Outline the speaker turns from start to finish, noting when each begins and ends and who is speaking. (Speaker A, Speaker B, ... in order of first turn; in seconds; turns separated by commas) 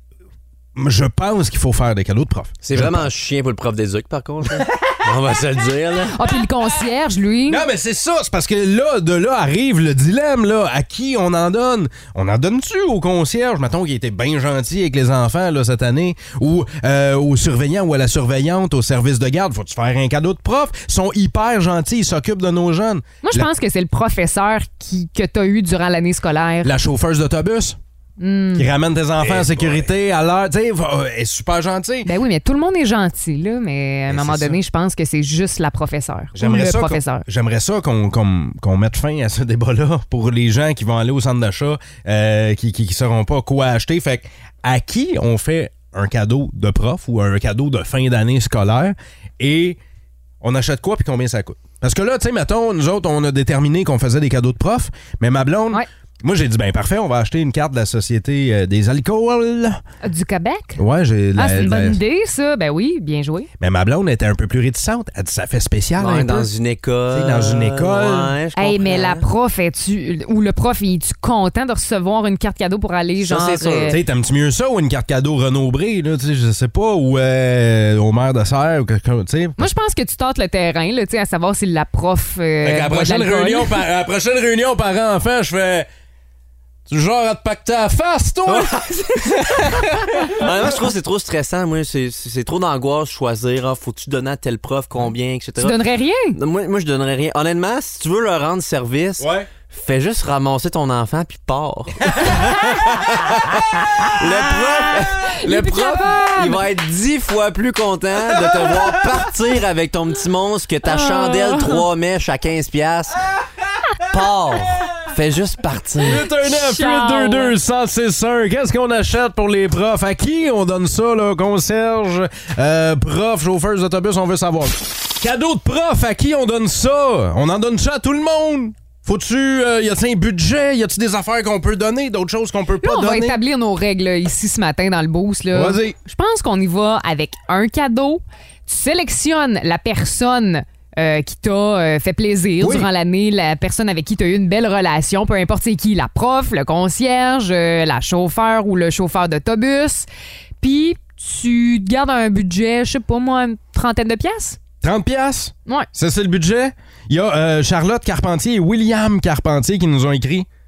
Speaker A: 0.8-3.1, Speaker B: 2.6-6.2, Speaker C: 6.1-7.6, Speaker A: 7.5-23.5, Speaker C: 23.2-26.7, Speaker A: 26.6-27.8, Speaker C: 28.2-28.7, Speaker A: 28.6-32.1, Speaker B: 29.4-29.7, Speaker C: 32.0-37.2, Speaker A: 34.1-34.6, Speaker A: 36.3-49.8, Speaker A: 50.4-59.8, Speaker C: 60.0-60.8, Speaker A: 60.8-62.0, Speaker C: 61.4-63.5, Speaker A: 63.6-66.5, Speaker B: 66.0-69.3, Speaker A: 67.1-68.3, Speaker C: 68.6-74.0, Speaker B: 73.2-74.0, Speaker A: 73.9-79.7, Speaker C: 79.6-83.8, Speaker A: 82.6-85.9, Speaker A: 86.9-90.8, Speaker B: 88.5-88.8, Speaker B: 89.3-95.8, Speaker C: 95.6-96.4, Speaker B: 96.3-113.2, Speaker A: 99.2-99.5, Speaker C: 105.2-106.6, Speaker A: 108.4-109.1, Speaker C: 110.9-111.8, Speaker B: 114.1-116.3, Speaker A: 116.0-133.4, Speaker C: 116.4-117.6, Speaker C: 132.8-150.1, Speaker A: 135.5-135.9, Speaker A: 142.6-142.9, Speaker C: 150.6-154.6, Speaker A: 154.8-160.5